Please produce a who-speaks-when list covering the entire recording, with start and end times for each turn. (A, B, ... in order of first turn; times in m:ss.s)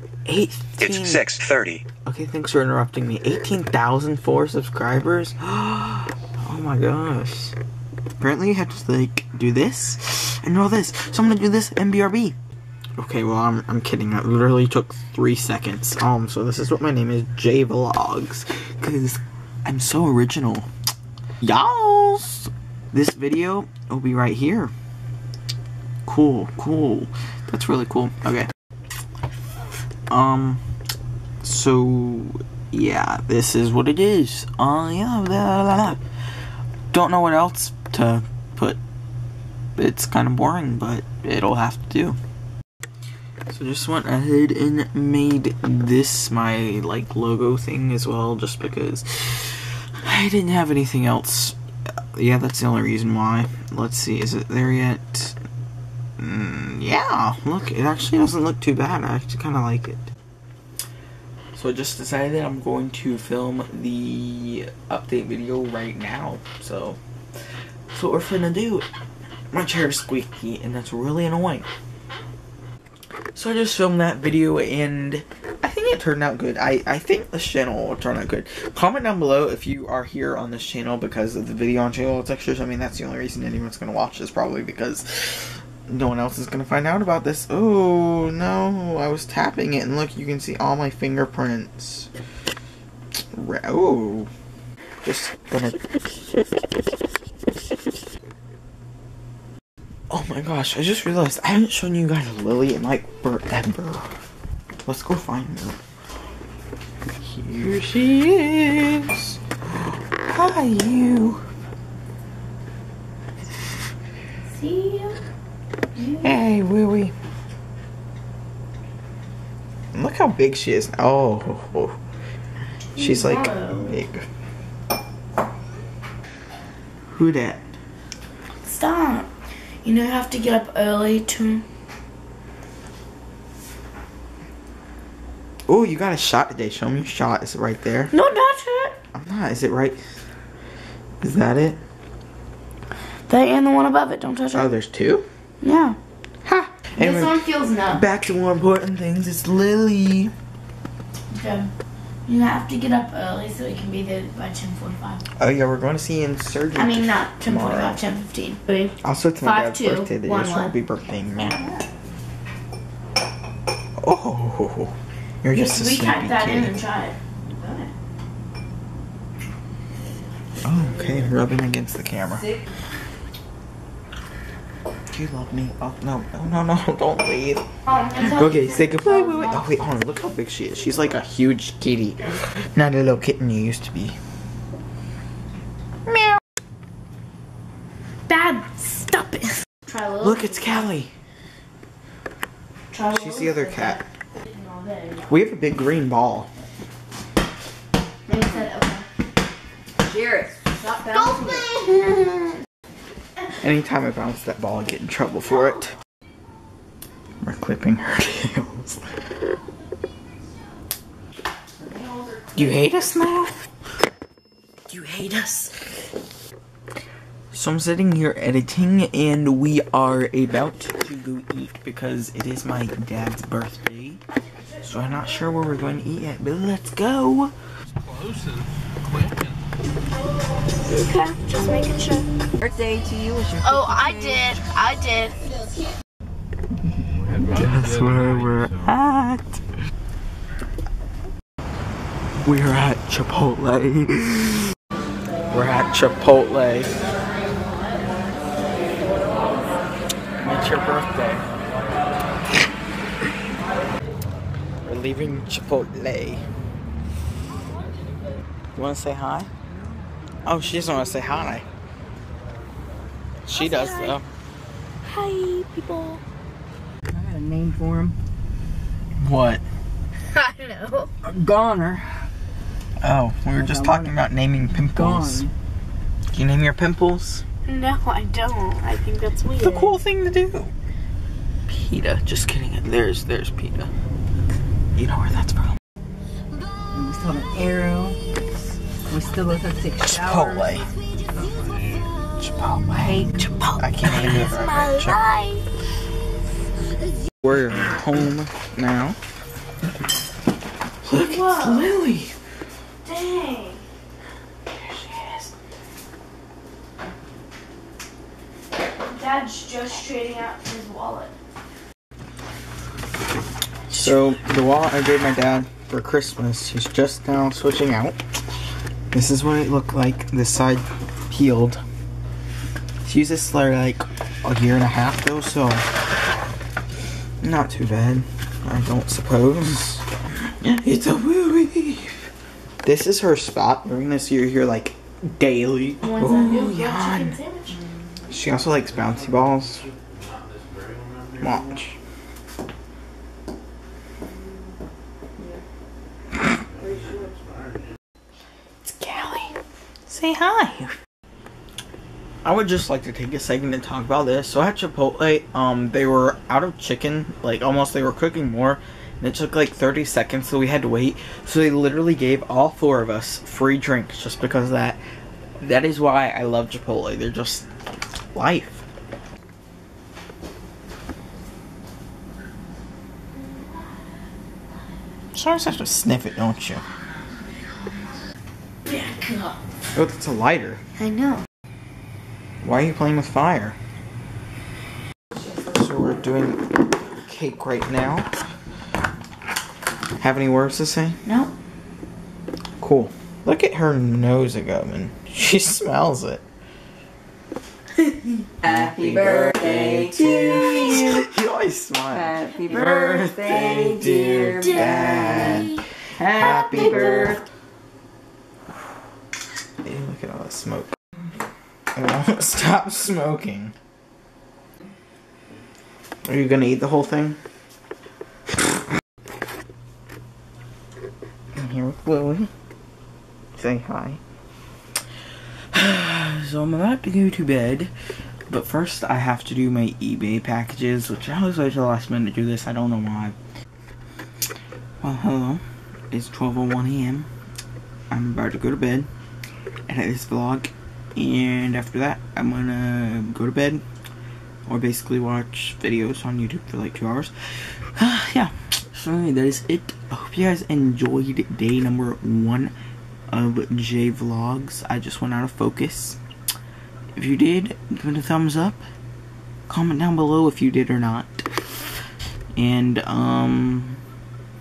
0:00.2-0:07.6 A
0:00.8-0:01.8 B
0:08.2-0:12.4 A
0:13.0-0:20.7 A
0:21.4-0:24.7 A
0:26.0-0:28.5 A
0:30.1-0:30.6 A
0:31.4-0:36.0 A
0:36.9-0:38.8 A
0:39.8-0:42.2 A
0:43.5-0:51.6 A
0:52.1-0:55.4 A
0:56.2-1:00.1 A
1:01.5-1:07.0 A
1:07.9-1:08.9 A
1:09.5-1:11.7 A
1:13.3-1:32.1 A
1:33.3-1:34.3 A
1:35.0-1:35.9 A
1:40.1-1:44.1 A
1:44.8-1:45.8 A
1:47.2-1:51.4 A
1:54.5-1:55.2 C
1:56.0-1:56.4 C
1:56.2-1:57.1 A
1:59.9-2:02.0 A
2:02.9-2:04.0 C
2:03.0-2:04.2 A
2:07.1-2:07.7 A
2:08.6-2:09.3 C
2:09.8-2:11.6 C
2:15.7-2:18.1 A
2:18.1-2:19.0 C
2:19.1-2:20.0 A
2:21.2-2:21.8 A
2:23.3-2:24.7 C
2:24.5-2:25.2 A
2:25.6-2:26.0 C
2:26.4-2:30.3 A
2:27.0-2:28.0 C
2:31.3-2:31.7 C
2:32.2-2:35.2 C
2:35.4-2:38.0 A
2:36.7-2:38.9 C
2:39.0-2:41.6 A
2:39.4-2:40.7 C
2:41.4-2:41.8 C
2:44.0-2:46.8 A
2:45.5-2:47.2 C
2:47.5-2:47.9 D
2:50.6-2:52.5 A
2:55.1-3:04.2 A
2:57.9-2:59.6 C
3:06.0-3:06.4 A
3:08.3-3:10.8 C
3:10.2-3:11.1 A
3:12.9-3:15.3 C
3:13.0-3:14.0 A
3:15.3-3:16.5 A
3:18.3-3:19.0 C
3:20.0-3:21.7 D
3:21.1-3:22.6 C
3:23.6-3:25.9 A
3:27.4-3:29.2 A
3:31.8-3:32.7 D
3:32.5-3:33.6 A
3:34.9-3:35.9 A
3:37.5-3:44.2 A
3:44.8-3:47.5 A
3:48.1-3:48.6 B
3:50.8-3:52.3 C
3:52.6-3:54.6 D
3:53.6-3:55.4 C
3:57.4-3:58.1 B
3:57.4-3:59.6 A
4:02.4-4:04.7 A
4:05.5-4:07.0 A
4:10.4-4:11.5 A
4:14.8-4:16.4 A
4:18.7-4:19.5 A
4:20.4-4:21.7 A
4:23.4-4:24.2 A
4:23.5-4:24.2 C
4:25.1-4:26.2 C
4:27.1-4:28.2 D
4:29.2-4:29.6 A
4:30.3-4:31.1 C
4:31.2-4:32.3 D
4:33.0-4:35.5 A
4:33.6-4:34.1 D
4:34.8-4:35.5 D
4:36.3-4:37.4 A
4:37.6-4:40.0 C
4:39.6-4:40.7 A
4:41.7-4:43.9 A
4:45.0-4:45.8 A
4:46.9-4:48.2 D
4:49.1-4:50.8 D
4:50.0-4:50.9 A
4:52.3-4:53.2 A
4:53.0-4:55.6 C
4:53.8-4:55.3 A
4:57.4-4:59.2 A
5:01.0-5:02.3 A
5:01.1-5:01.9 C
5:03.0-5:03.8 C
5:04.7-5:05.5 A
5:09.0-5:11.3 C
5:13.9-5:14.3 C
5:13.9-5:18.2 A
5:19.1-5:21.8 A
5:23.0-5:25.8 A
5:27.4-5:32.2 A
5:32.8-5:37.4 A
5:36.0-5:37.8 C
5:38.3-5:39.9 A
5:40.0-5:41.4 B
5:41.4-5:41.9 A
5:48.8-5:50.9 A
5:52.4-6:05.0 A
6:05.6-6:07.7 A
6:08.3-6:08.8 A
6:15.3-6:16.8 A
6:18.9-6:19.6 C
6:19.9-6:20.8 A
6:21.0-6:21.4 C
6:22.6-6:23.8 A
6:25.6-6:28.3 A
6:30.2-6:31.2 A
6:31.2-6:31.5 C
6:32.8-6:36.4 A
6:38.6-6:41.2 D
6:38.6-6:47.4 A
6:42.1-6:47.4 D
6:45.0-6:45.5 C
6:49.8-6:50.9 A
6:51.9-6:53.7 A
6:56.2-6:57.4 A
7:01.6-7:02.5 A
7:03.6-7:04.2 A
7:05.7-7:07.9 A
7:08.5-7:13.4 A
7:15.0-7:17.3 A
7:18.1-7:19.1 A
7:19.9-7:23.8 A
7:24.6-7:27.3 A
7:28.0-7:32.7 A
7:33.3-7:36.2 A
7:37.2-7:38.8 A
7:39.7-7:41.6 A
7:42.6-7:44.0 A